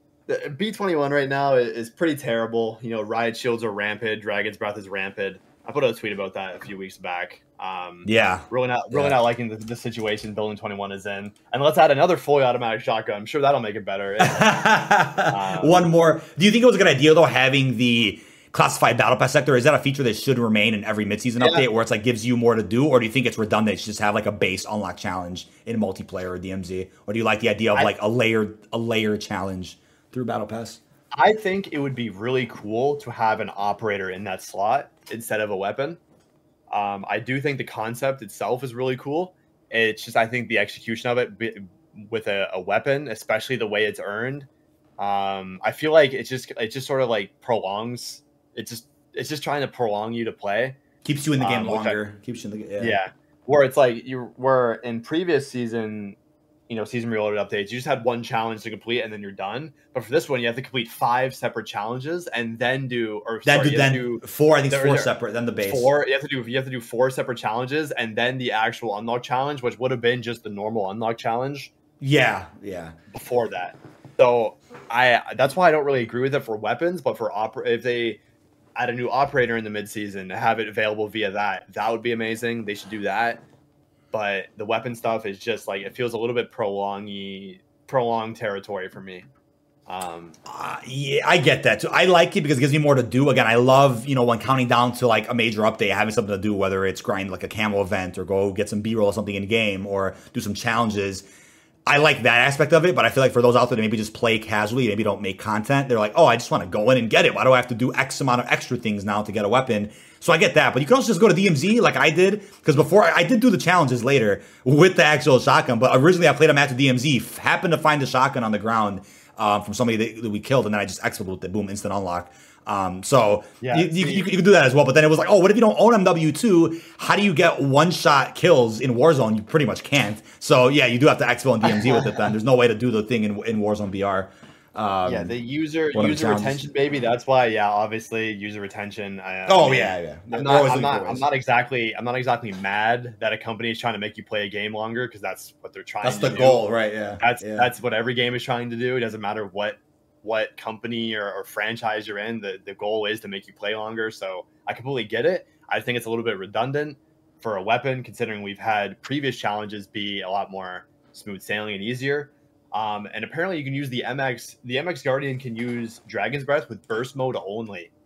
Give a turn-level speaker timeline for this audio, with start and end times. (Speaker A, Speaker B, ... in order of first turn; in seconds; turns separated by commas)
Speaker A: 0.3-14.6, Speaker B: 8.1-9.2, Speaker B: 14.2-30.8, Speaker A: 15.3-15.8, Speaker A: 21.4-21.6, Speaker A: 31.1-36.0, Speaker A: 36.7-44.5, Speaker A: 45.0-50.8, Speaker B: 51.0-53.0, Speaker A: 51.4-52.0, Speaker A: 52.8-56.2, Speaker A: 56.7-65.1, Speaker B: 63.5-65.9, Speaker A: 65.7-71.7, Speaker B: 72.0-73.0, Speaker A: 73.1-78.2, Speaker A: 78.8-83.4, Speaker A: 84.1-89.3, Speaker A: 89.9-90.4, Speaker B: 90.5-101.2, Speaker B: 101.9-135.3, Speaker A: 123.6-124.3, Speaker A: 131.6-132.3, Speaker A: 135.1-146.7, Speaker B: 135.9-136.7, Speaker B: 139.5-141.2, Speaker B: 146.0-147.7, Speaker A: 147.2-167.9